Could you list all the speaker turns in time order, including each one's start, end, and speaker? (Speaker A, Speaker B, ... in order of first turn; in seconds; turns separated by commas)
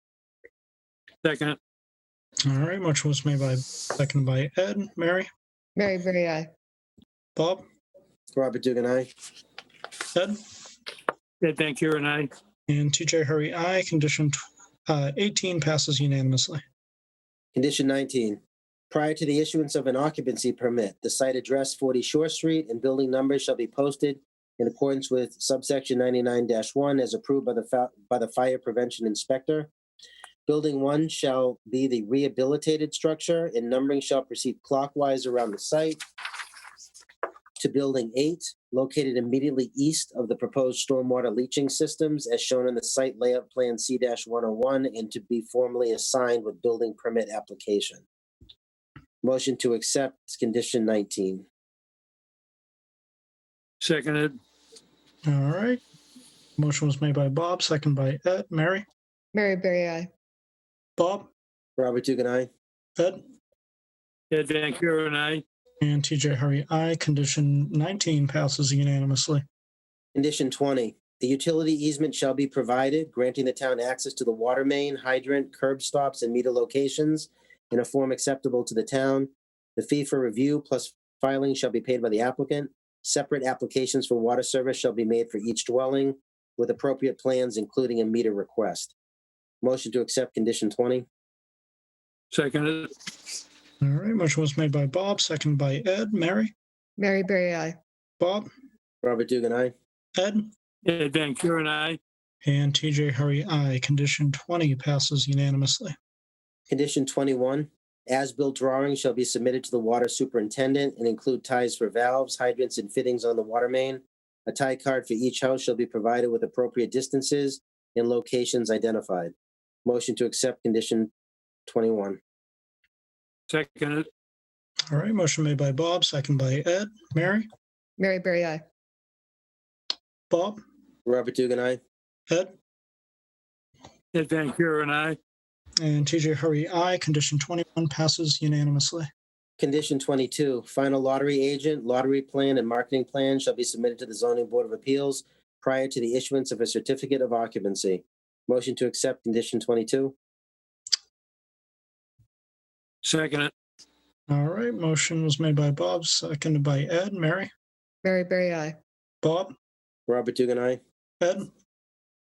Speaker A: 1.2-1.6, Speaker B: 2.5-5.3, Speaker C: 5.8-6.5, Speaker B: 7.3-7.6, Speaker D: 8.3-9.1, Speaker B: 10.1-10.4, Speaker A: 11.4-12.3, Speaker B: 12.7-16.6, Speaker D: 17.5-29.7, Speaker D: 30.5-36.0, Speaker D: 37.6-48.0, Speaker D: 49.2-51.5, Speaker A: 53.8-54.4, Speaker B: 55.2-55.8, Speaker B: 56.6-58.8, Speaker C: 59.3-60.1, Speaker B: 61.0-61.3, Speaker D: 61.8-62.5, Speaker A: 64.3-65.4, Speaker B: 65.8-69.4, Speaker D: 70.1-88.9, Speaker D: 89.6-91.0, Speaker A: 92.3-92.9, Speaker B: 93.8-96.5, Speaker C: 97.0-97.7, Speaker B: 98.2-98.5, Speaker D: 99.0-99.7, Speaker B: 100.2-100.5, Speaker A: 100.8-102.0, Speaker B: 102.4-105.9, Speaker D: 106.7-119.3, Speaker D: 119.8-121.1, Speaker D: 121.7-122.2, Speaker A: 123.5-124.0, Speaker B: 124.9-127.5, Speaker C: 128.0-128.6, Speaker B: 130.3-130.6, Speaker D: 131.0-131.8, Speaker A: 134.1-135.2, Speaker B: 135.8-139.1, Speaker D: 139.6-150.1, Speaker A: 153.0-153.5, Speaker B: 154.3-157.5, Speaker C: 158.0-158.7, Speaker B: 159.2-159.5, Speaker D: 160.1-160.8, Speaker B: 161.2-161.5